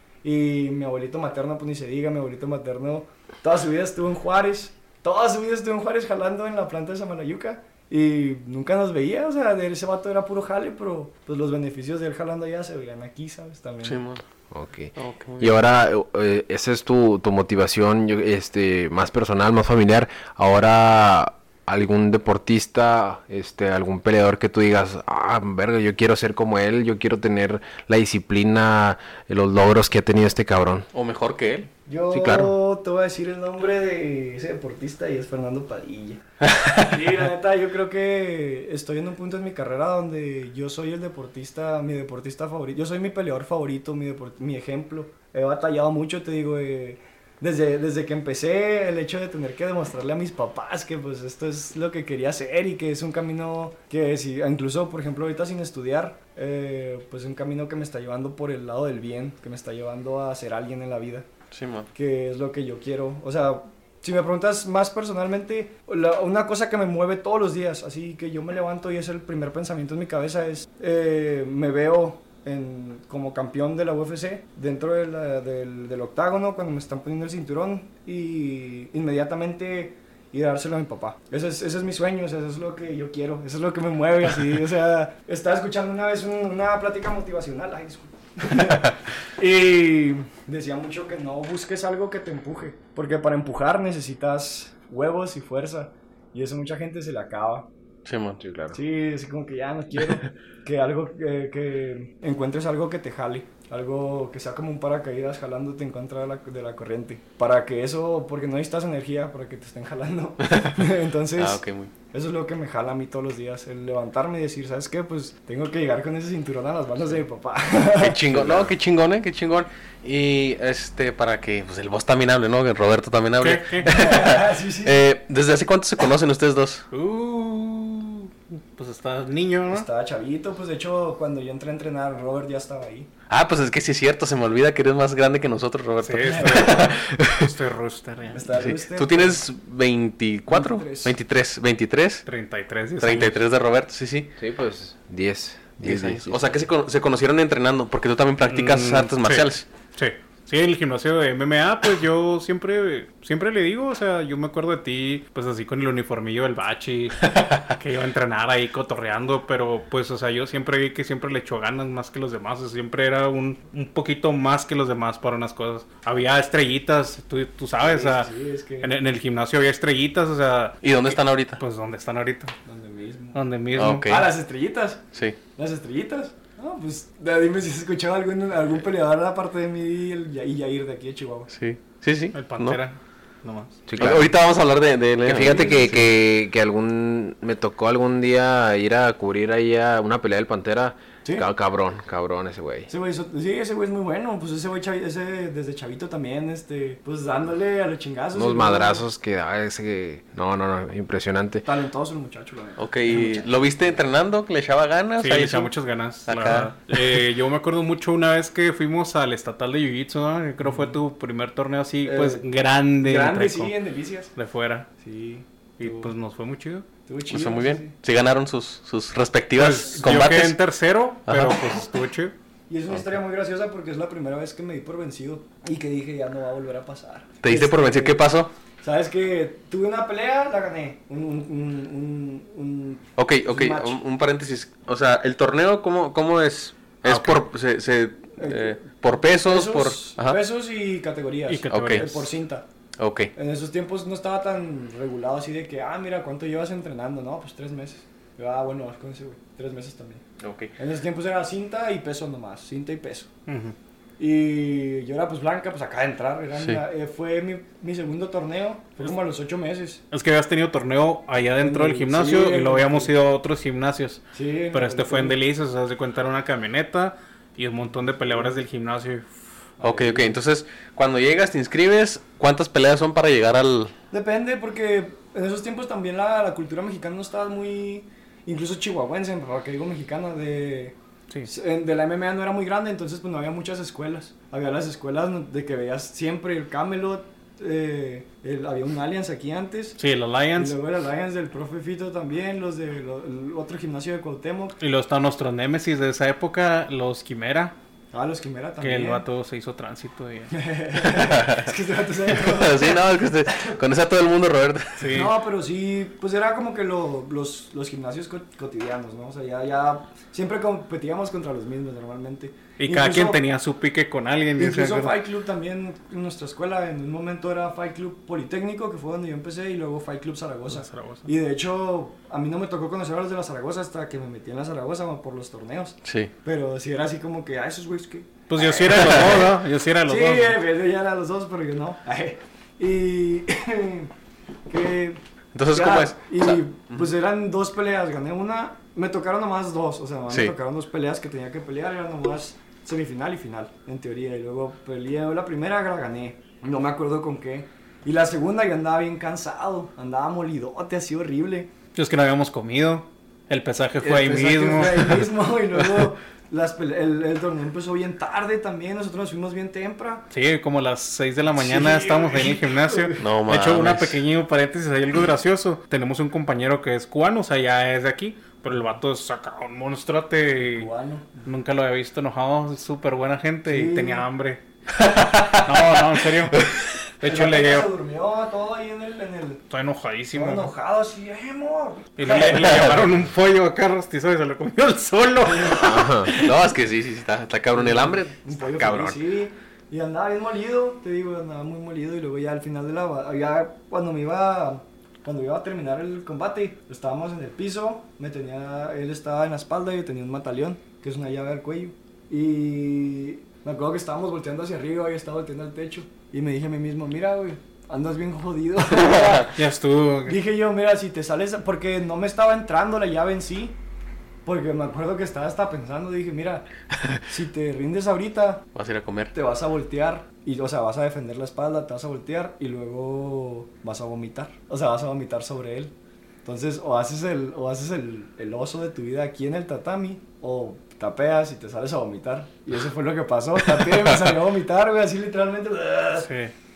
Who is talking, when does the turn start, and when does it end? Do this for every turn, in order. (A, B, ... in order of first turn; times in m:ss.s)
0:00.2-0:14.0 A
0:13.8-0:14.2 B
0:14.5-0:30.9 C
0:15.0-0:15.7 B
0:30.9-0:31.7 B
0:31.8-0:36.2 A
0:32.1-0:32.5 C
0:36.5-0:36.8 B
0:36.8-1:01.3 A
1:01.5-1:01.9 B
1:01.9-1:37.7 A
1:38.0-1:38.4 B
1:38.4-1:38.8 C
1:38.7-1:58.7 A
1:50.4-1:51.9 B
1:58.0-2:06.9 B
2:03.4-2:04.0 D
2:03.8-2:05.0 A
2:06.9-2:09.9 D
2:09.7-2:13.1 A
2:13.3-2:17.5 B
2:16.0-2:18.5 D
2:16.3-2:16.8 A
2:18.3-2:19.4 A
2:18.5-2:22.2 B
2:20.5-2:21.1 A
2:22.2-2:23.4 D
2:23.0-2:24.3 B
2:24.4-2:26.6 C
2:25.8-2:29.7 B
2:28.4-2:48.3 D
2:37.2-2:37.7 B
2:47.8-2:48.9 A
2:48.8-2:50.9 D
2:50.8-2:51.6 B
2:51.6-2:52.5 D
2:52.6-2:53.4 A
2:53.3-2:54.2 D
2:53.7-2:54.3 B
2:54.0-2:55.0 A
2:55.6-3:01.5 A
3:01.5-3:02.8 B
3:02.3-3:03.8 D
3:03.9-3:04.3 C
3:04.0-3:05.9 B
3:05.2-3:12.9 C
3:05.4-3:06.0 A
3:12.9-3:19.0 A
3:18.3-3:21.7 C
3:21.6-3:23.6 A
3:22.8-3:25.7 B
3:25.2-3:33.7 D
3:26.2-3:27.2 B
3:32.0-3:32.5 A
3:33.0-3:34.3 A
3:34.4-3:34.9 D
3:35.0-3:36.1 A
3:35.8-3:36.9 D
3:37.0-3:37.9 A
3:37.3-3:40.6 B
3:39.5-3:42.3 D
3:41.3-3:41.7 B
3:42.7-3:48.2 A
3:47.4-3:48.5 B
3:48.8-3:54.0 A
3:53.2-4:00.4 B
3:57.0-3:57.4 D
3:58.4-4:02.6 A
4:01.5-4:02.3 D
4:01.7-4:02.1 B
4:03.0-4:03.3 B
4:03.3-4:10.2 A
4:10.4-4:10.7 B
4:10.8-4:13.3 A
4:13.5-4:13.7 D
4:14.2-4:20.0 A
4:20.1-4:29.3 D
4:21.6-4:23.1 A
4:24.3-4:25.4 A
4:29.8-4:30.4 A
4:29.8-4:33.9 B
4:34.1-4:50.0 A
4:50.0-4:50.8 D
4:50.6-4:54.8 A
4:54.8-4:57.8 D
4:58.1-4:59.2 A
4:58.8-5:00.5 D
5:00.5-5:03.8 A
5:01.0-5:01.7 B
5:02.3-5:05.1 B
5:05.0-5:05.3 D
5:05.1-5:13.4 A
5:12.8-5:15.2 D
5:14.6-5:29.5 A
5:20.7-5:21.3 D
5:26.0-5:26.3 B
5:28.5-5:30.6 D
5:28.9-5:29.5 B
5:30.0-5:34.1 A
5:34.7-5:51.7 A
5:35.5-5:37.1 B
5:40.3-5:40.5 B
5:51.9-5:55.3 D
5:54.0-6:00.3 A
6:00.3-6:10.9 D
6:01.5-6:03.3 A
6:03.2-6:04.2 B
6:10.6-6:11.3 A
6:11.4-6:14.6 D
6:13.7-6:14.3 A
6:14.9-6:16.8 B
6:15.5-6:17.9 D
6:17.2-6:19.6 A
6:19.7-6:20.7 D
6:20.3-6:22.9 A
6:22.2-6:26.5 D
6:22.6-6:23.0 B
6:25.4-6:26.3 A
6:25.8-6:26.3 C
6:26.3-6:29.2 B
6:27.7-6:49.6 A
6:49.5-6:50.4 D
6:50.2-6:53.8 A
6:54.4-6:56.7 A
6:57.3-6:58.6 A
6:58.7-6:59.3 B
6:59.3-7:05.9 A
7:06.4-7:16.3 A
7:13.8-7:14.1 B
7:16.2-7:16.5 D